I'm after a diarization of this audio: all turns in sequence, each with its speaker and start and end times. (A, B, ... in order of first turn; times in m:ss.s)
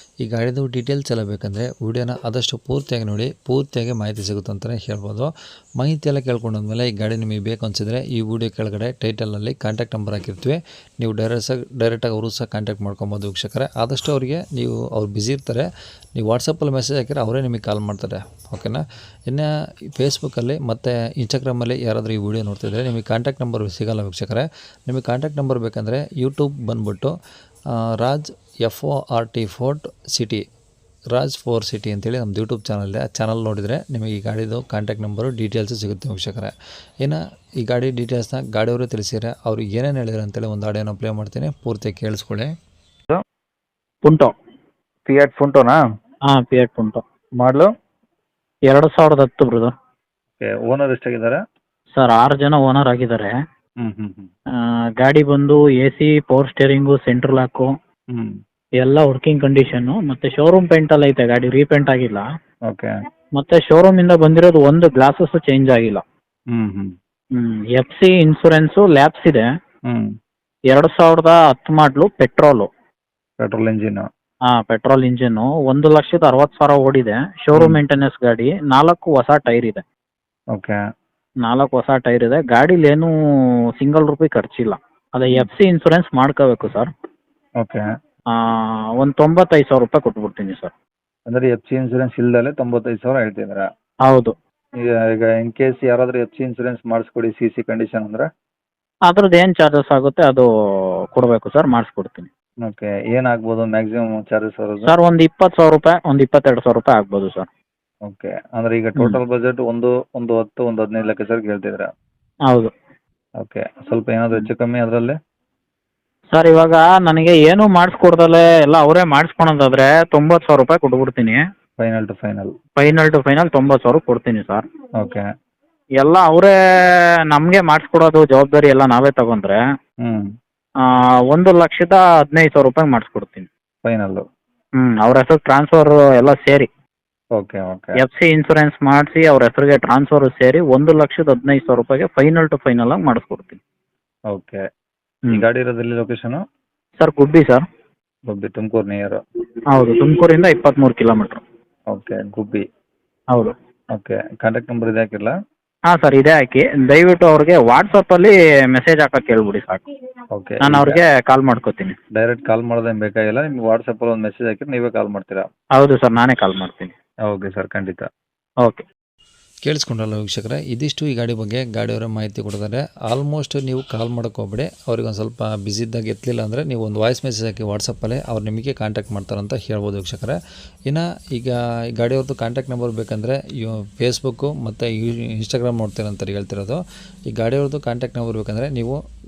0:00.2-0:27.2 A
0:28.0-0:30.4 A
0:31.1-0:42.5 A
0:44.0-0:44.3 B
0:45.1-0:45.8 C
0:46.3-0:47.0 B
0:47.4-0:47.7 C
0:48.7-0:49.7 B
0:50.4-0:51.4 C
0:51.9-0:53.4 B
0:53.8-0:54.3 C
0:55.0-0:57.7 B
0:58.8-1:02.2 B
1:03.4-1:06.0 B
1:06.5-1:06.9 C
1:07.4-1:09.5 B
1:10.7-1:12.7 B
1:13.4-1:14.0 C
1:14.5-1:19.8 B
1:21.4-1:23.1 B
1:23.8-1:26.9 B
1:28.3-1:30.7 B
1:31.3-1:33.7 C
1:34.1-1:34.3 B
1:34.8-1:38.3 C
1:39.1-1:40.5 B
1:41.1-1:42.3 B
1:42.6-1:44.9 C
1:44.8-1:47.5 B
1:48.1-1:51.9 C
1:53.4-1:55.2 C
1:56.3-2:01.4 B
2:01.8-2:02.5 C
2:02.8-2:04.6 B
2:06.0-2:06.5 B
2:07.3-2:09.6 B
2:11.3-2:13.5 B
2:13.8-2:14.2 C
2:14.8-2:16.7 B
2:17.4-2:18.0 C
2:18.0-2:23.6 B
2:24.3-2:24.6 C
2:25.3-2:26.4 C
2:27.0-2:27.6 B
2:28.3-2:29.2 C
2:29.7-2:31.4 B
2:31.9-2:32.6 C
2:34.0-2:35.3 C
2:35.9-2:39.8 B
2:40.3-2:41.0 C
2:40.6-2:42.0 B
2:42.2-2:45.5 C
2:45.8-2:46.9 B
2:47.3-2:48.0 C
2:49.6-3:06.8 A
3:07.3-3:09.0 A